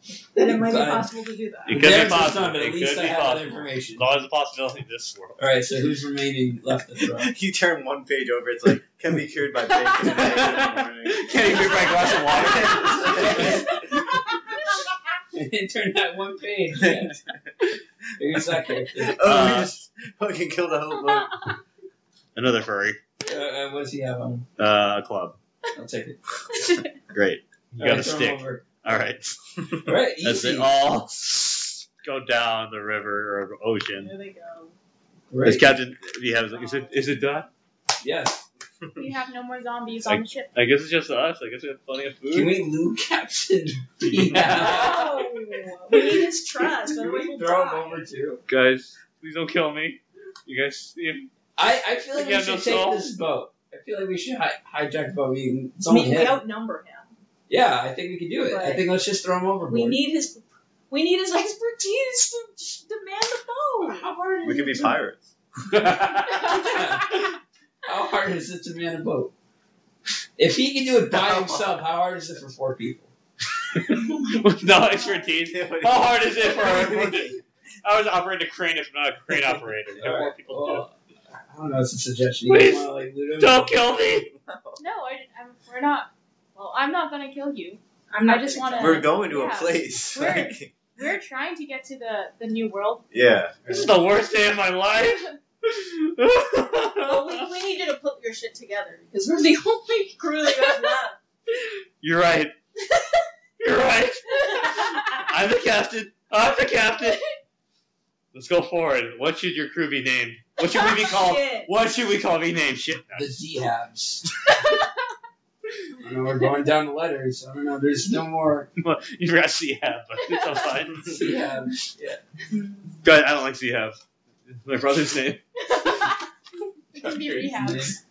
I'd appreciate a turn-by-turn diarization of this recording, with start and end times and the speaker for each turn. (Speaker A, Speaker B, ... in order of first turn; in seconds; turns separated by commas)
Speaker A: 0.3-1.8, Speaker B: 0.4-1.1, Speaker C: 1.6-5.4, Speaker B: 1.7-4.0, Speaker B: 5.4-7.3, Speaker D: 7.0-11.8, Speaker C: 11.1-13.6, Speaker B: 11.2-14.2, Speaker E: 12.1-12.9, Speaker D: 12.4-13.8, Speaker B: 15.3-17.2, Speaker B: 18.2-19.2, Speaker D: 19.0-21.5, Speaker C: 19.2-19.7, Speaker C: 22.3-23.0, Speaker B: 23.2-24.4, Speaker C: 24.6-25.4, Speaker B: 25.7-26.2, Speaker E: 26.5-26.9, Speaker C: 27.1-34.1, Speaker B: 27.8-28.6, Speaker B: 29.8-30.7, Speaker A: 33.9-34.7, Speaker B: 35.3-35.8, Speaker C: 35.4-37.5, Speaker A: 36.5-36.9, Speaker B: 38.0-38.4, Speaker E: 39.0-40.5, Speaker C: 40.0-42.6, Speaker B: 42.3-45.2, Speaker C: 44.1-45.1, Speaker A: 44.5-48.0, Speaker B: 46.6-48.4, Speaker C: 48.5-51.3, Speaker B: 51.6-56.4, Speaker C: 52.1-53.1, Speaker A: 55.9-57.1, Speaker B: 57.5-60.0, Speaker A: 58.5-58.8, Speaker A: 59.7-64.1, Speaker B: 63.8-65.0, Speaker D: 64.4-65.2, Speaker C: 65.7-66.6, Speaker E: 66.3-67.0, Speaker B: 66.4-67.2, Speaker B: 67.8-69.3, Speaker B: 70.4-73.1, Speaker D: 71.1-71.8, Speaker C: 73.9-80.8, Speaker E: 74.6-75.3, Speaker D: 75.4-77.4, Speaker B: 80.0-83.8, Speaker C: 82.4-84.3, Speaker D: 84.3-84.8, Speaker E: 84.8-93.0, Speaker A: 88.1-89.1, Speaker D: 88.8-90.7, Speaker D: 93.1-93.7, Speaker C: 93.7-97.5, Speaker A: 97.0-101.2, Speaker C: 101.5-102.5, Speaker C: 103.6-107.2, Speaker C: 108.3-113.2, Speaker A: 110.6-111.7, Speaker B: 113.1-114.3, Speaker B: 116.0-118.7, Speaker C: 118.8-121.2, Speaker E: 120.3-120.6, Speaker B: 121.0-122.2, Speaker C: 123.0-124.0, Speaker C: 124.5-125.4, Speaker E: 125.7-126.2, Speaker E: 126.9-128.0, Speaker B: 127.0-128.0